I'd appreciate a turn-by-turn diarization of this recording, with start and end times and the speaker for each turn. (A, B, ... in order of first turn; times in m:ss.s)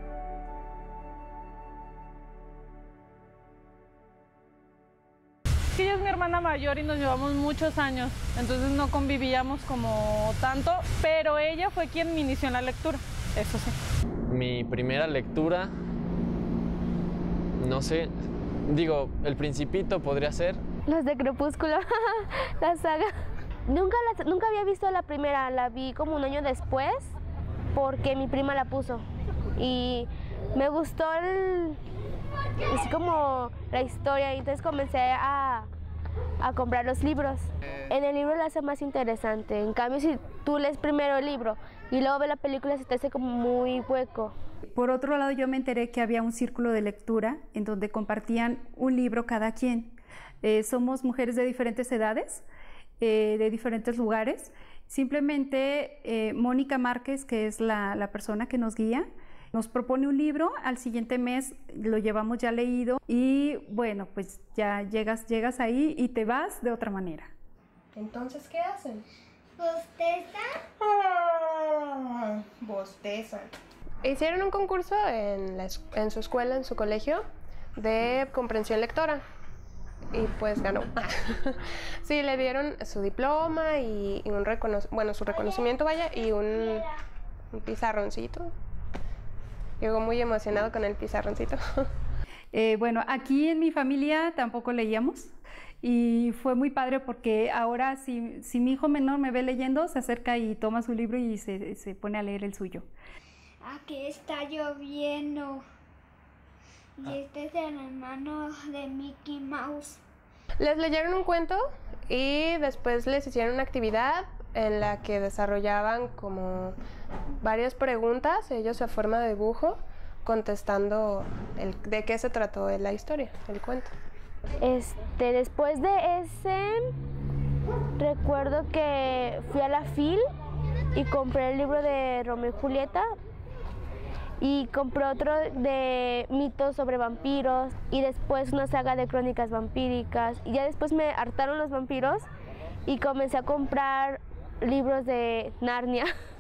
0:05.7-0:13.7 A
0:14.3-0:15.7 B
0:17.6-0:18.1 B
0:18.7-0:20.6 B
0:20.9-0:23.1 C
0:23.7-0:27.2 C
0:27.7-0:29.0 C
0:29.6-0:31.8 C
0:32.7-0:35.7 C
0:36.4-0:44.3 C
0:44.7-0:52.4 D
0:53.0-1:07.3 D
1:07.9-1:09.0 E
1:10.8-1:13.5 E
1:14.0-1:17.2 E
1:17.8-1:19.2 E
1:20.1-1:26.9 E
1:27.5-1:28.5 E
1:29.8-1:31.8 E
1:32.5-1:42.9 D
1:50.6-1:56.7 E
1:57.4-2:03.9 E
2:04.6-2:06.9 C
2:08.0-2:10.2 C
2:10.9-2:13.1 C
2:14.4-2:22.3 C
2:22.9-2:26.1 C